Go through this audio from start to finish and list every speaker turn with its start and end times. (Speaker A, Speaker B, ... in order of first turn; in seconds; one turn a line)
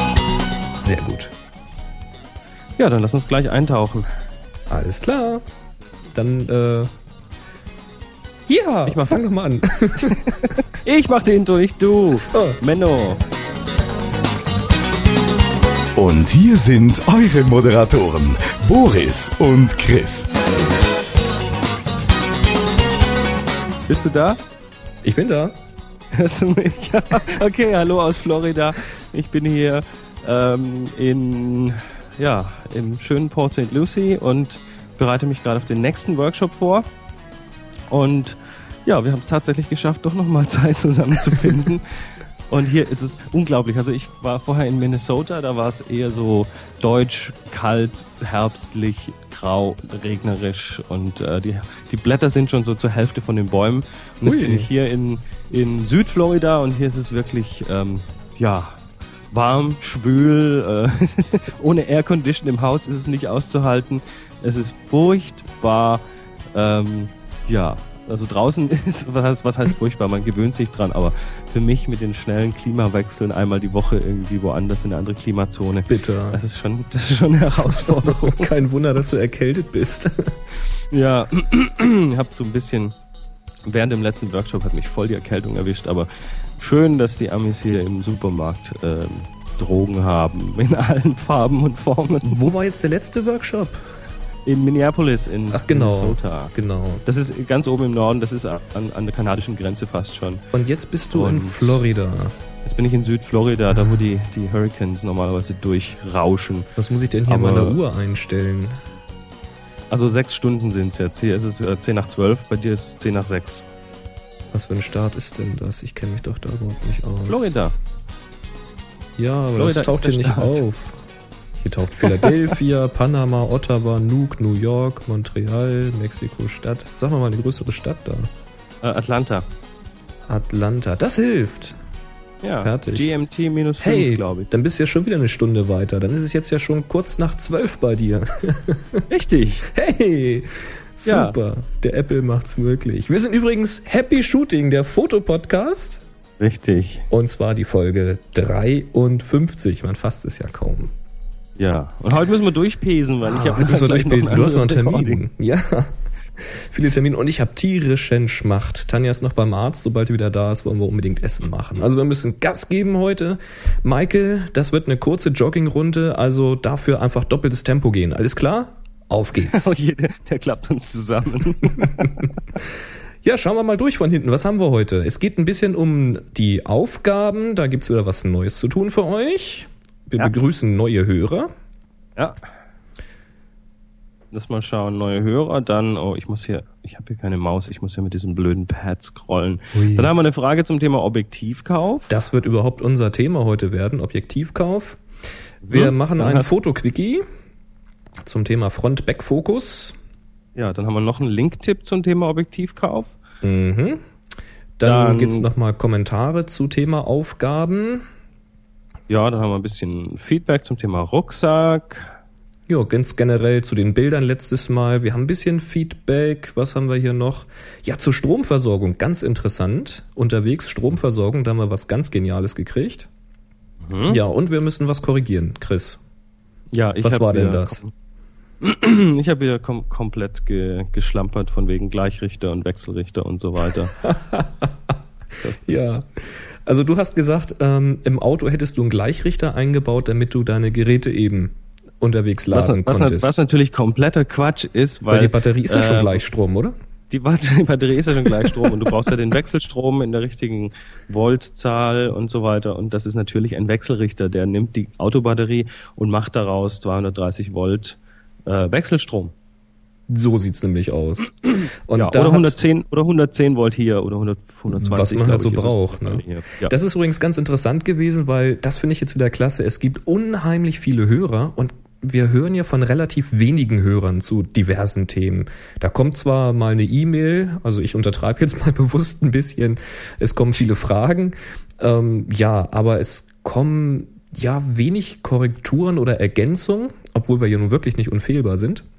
Speaker A: 0.8-1.3
Speaker B: 2.8-4.1
Speaker A: 4.7-5.4
Speaker A: 6.1-6.9
Speaker A: 8.5-10.2
Speaker B: 8.8-9.2
Speaker B: 10.0-13.2
Speaker A: 12.3-12.6
Speaker C: 16.0-20.3
Speaker B: 23.9-24.4
Speaker A: 25.0-25.6
Speaker B: 26.1-36.9
Speaker B: 37.9-41.8
Speaker B: 42.5-58.8
Speaker A: 54.2-54.7
Speaker B: 59.3-66.0
Speaker B: 66.5-78.5
Speaker A: 75.9-76.4
Speaker A: 77.7-80.4
Speaker B: 80.9-82.9
Speaker B: 83.7-92.5
Speaker A: 92.2-94.0
Speaker B: 94.5-96.5
Speaker A: 95.5-97.0
Speaker B: 97.0-100.4
Speaker A: 100.5-102.4
Speaker B: 101.1-101.8
Speaker B: 102.6-106.7
Speaker A: 106.8-108.8
Speaker B: 107.3-107.8
Speaker B: 109.9-113.6
Speaker A: 114.5-117.5
Speaker B: 117.3-117.7
Speaker A: 119.2-121.0
Speaker B: 119.5-120.6
Speaker A: 121.6-128.3
Speaker B: 122.0-122.3
Speaker B: 128.8-129.4
Speaker A: 130.3-131.8
Speaker B: 132.4-134.5
Speaker A: 132.6-133.1
Speaker A: 133.8-139.0
Speaker B: 139.1-139.7
Speaker A: 139.7-146.0
Speaker B: 141.1-141.4
Speaker B: 146.4-147.1
Speaker A: 147.1-150.9
Speaker B: 151.6-155.2
Speaker A: 153.2-169.7
Speaker B: 169.4-172.1
Speaker A: 171.8-172.1
Speaker A: 173.2-181.5
Speaker B: 184.3-192.1
Speaker A: 189.7-190.1
Speaker A: 192.1-195.0
Speaker B: 195.6-196.6
Speaker A: 195.7-197.2
Speaker A: 198.2-200.0
Speaker B: 200.6-203.2
Speaker A: 203.4-204.0
Speaker A: 204.8-208.1
Speaker B: 204.8-205.5
Speaker B: 209.1-212.1
Speaker A: 212.7-223.1
Speaker B: 223.8-224.2
Speaker A: 224.1-226.0
Speaker B: 226.7-227.9
Speaker A: 227.0-227.8
Speaker B: 228.6-233.9
Speaker A: 234.0-234.9
Speaker B: 235.4-236.0
Speaker A: 235.6-243.3
Speaker B: 242.5-246.2
Speaker A: 245.1-246.8
Speaker B: 247.1-259.3
Speaker A: 260.1-262.6
Speaker B: 261.9-266.7
Speaker A: 264.7-288.9